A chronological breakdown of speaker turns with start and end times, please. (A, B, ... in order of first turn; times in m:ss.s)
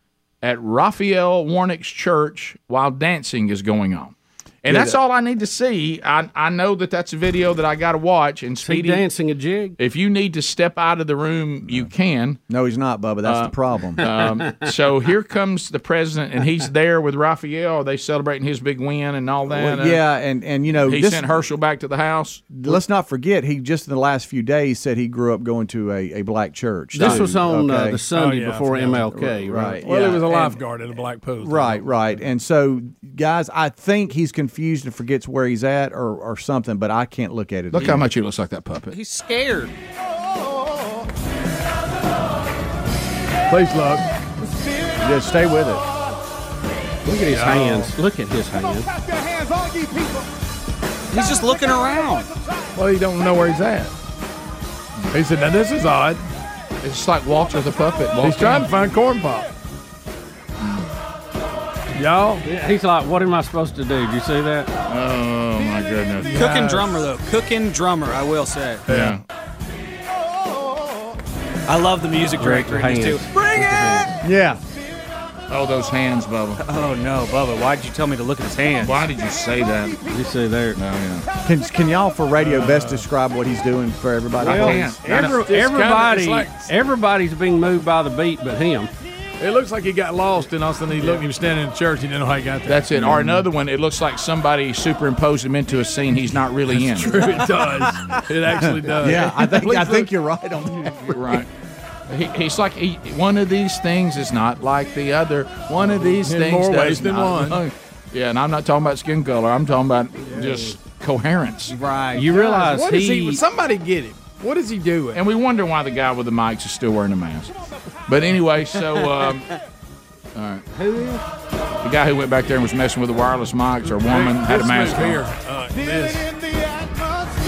0:00.4-0:09.1 A
0:04.7-0:05.0 B
0:08.6-0:09.8 C
0:09.8-0:12.4 A
0:12.5-0:14.1 B
0:13.2-0:20.0 A
0:14.1-0:14.7 C
0:19.5-0:21.3 B
0:20.9-0:22.8 A
0:22.6-0:28.0 B
0:26.9-0:30.1 C
0:28.1-0:29.1 D
0:29.1-0:30.4 B
0:29.8-0:31.9 D
0:31.4-0:38.0 B
0:37.7-0:39.0 A
0:38.9-0:39.7 E
0:43.5-0:44.1 D
0:45.0-0:45.9 B
0:47.0-0:48.9 C
0:47.3-0:47.9 D
0:51.1-0:52.3 E
0:52.8-0:53.9 D
0:55.1-0:56.2 D
0:56.8-0:58.7 A
0:58.2-0:59.5 D
1:02.0-1:02.4 D
1:02.4-1:04.7 C
1:04.9-1:06.4 A
1:06.3-1:06.8 D
1:06.3-1:08.9 E
1:08.9-1:09.2 D
1:08.9-1:09.2 A
1:11.7-1:14.1 E
1:12.4-1:14.1 C
1:14.2-1:14.6 B
1:15.5-1:16.6 A
1:16.6-1:19.0 E
1:18.8-1:20.0 A
1:20.1-1:20.8 C
1:20.8-1:21.3 A
1:21.4-1:25.0 B
1:22.4-1:23.0 D
1:24.4-1:25.0 A
1:24.4-1:28.9 C
1:24.6-1:26.7 D
1:29.4-1:33.4 D
1:32.7-1:37.3 A
1:36.7-1:40.1 D
1:37.6-1:41.4 B
1:41.1-1:41.5 A
1:42.1-1:51.8 A
1:46.2-1:47.6 D
1:51.7-1:52.5 B
1:52.2-1:53.4 C
1:52.5-1:55.2 D
1:55.1-1:57.5 A
1:58.1-1:59.5 A
2:00.4-2:00.6 A
2:01.8-2:05.2 A
2:04.0-2:06.3 D